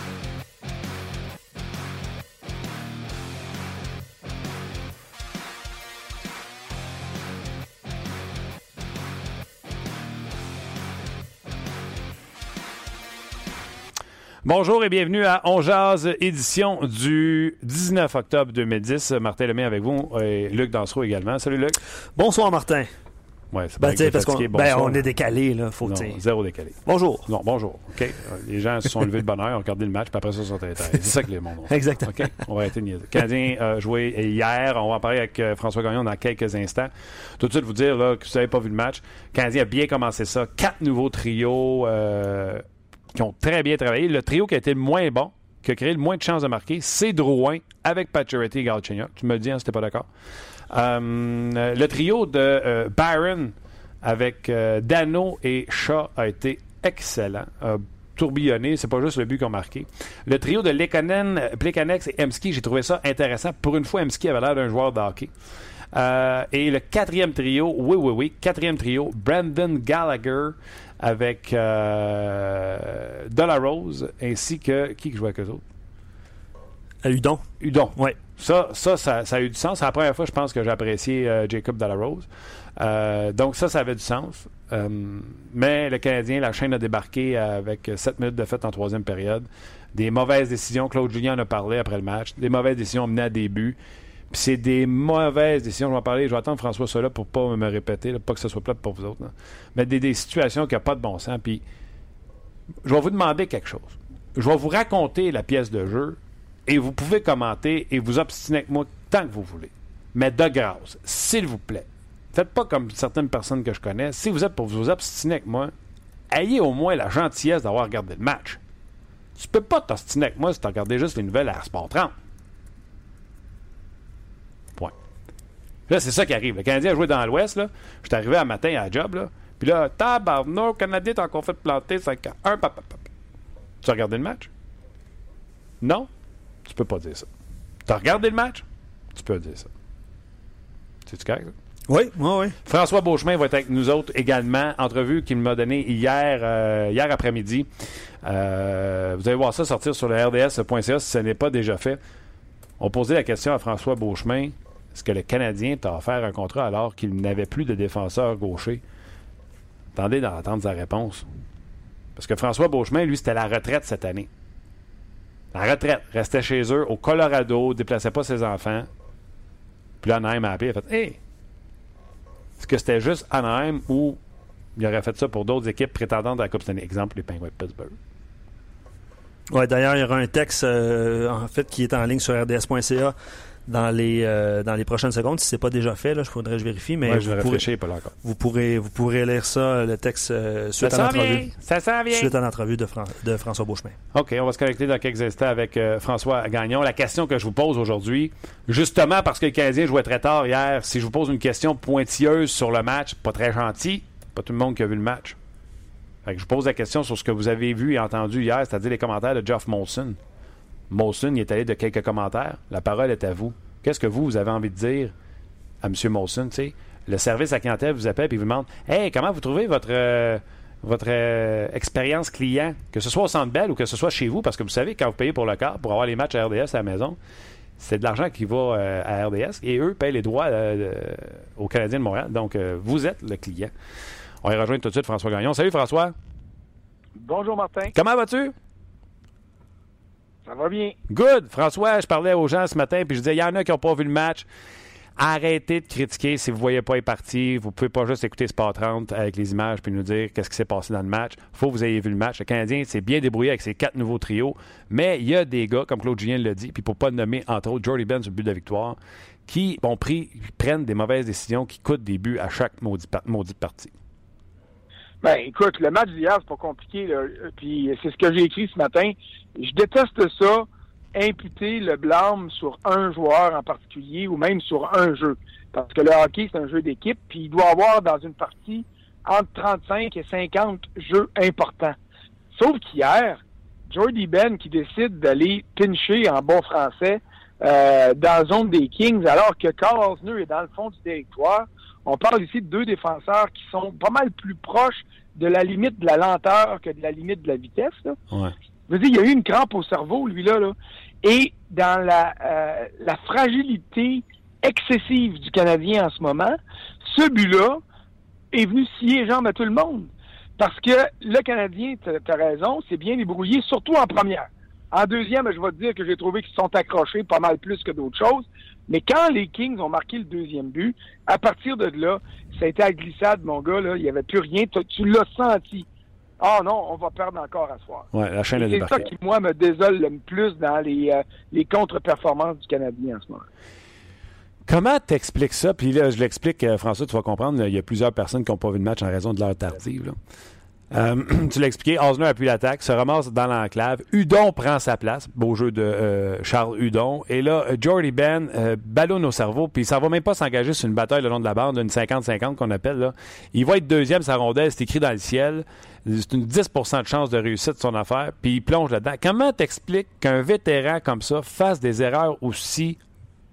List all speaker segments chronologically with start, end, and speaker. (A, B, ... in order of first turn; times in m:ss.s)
0:14.4-0:21.8 A
0:22.2-0:22.9 B
0:23.5-0:25.0 A
0:23.8-0:26.2 B
0:25.8-0:50.1 A
0:26.8-0:27.3 B
0:31.7-0:32.4 B
0:50.7-1:05.3 A
1:05.9-1:15.6 A
1:17.0-1:18.2 B
1:17.6-1:33.8 A
1:34.3-1:41.6 A
1:42.8-1:55.7 A
1:56.3-1:58.6 A
1:59.4-2:02.1 A
2:05.9-2:13.1 A
2:13.8-2:14.5 A
2:15.8-2:16.1 A
2:16.6-2:17.3 A
2:17.9-2:19.7 A
2:21.1-2:21.6 A
2:21.9-2:22.6 B
2:22.6-2:27.7 A
2:28.2-2:32.0 A
2:32.8-2:38.8 A
2:40.0-2:41.3 A
2:42.2-2:44.3 A
2:45.5-2:48.9 A
2:50.0-2:51.2 A
2:52.6-2:54.2 A
2:54.8-2:58.0 A
2:59.5-3:03.2 B
3:03.7-3:07.7 B
3:07.0-3:08.1 A
3:08.2-3:11.5 B
3:10.8-3:12.3 A
3:12.1-3:14.0 B
3:14.1-3:25.4 A
3:26.2-3:30.2 A
3:30.9-3:35.1 A
3:35.8-3:47.2 A
3:47.8-3:53.7 A
3:54.4-3:56.2 A
3:57.2-3:57.9 C
3:57.9-3:58.6 A
4:00.4-4:01.0 C
4:01.1-4:04.5 A
4:05.2-4:23.9 A
4:25.2-4:42.0 C
4:42.5-4:58.2 C
4:58.9-5:07.8 C
5:08.5-5:25.9 C
5:26.4-5:33.5 C
5:28.1-5:29.1 A
5:34.7-5:40.2 A
5:40.9-6:03.0 A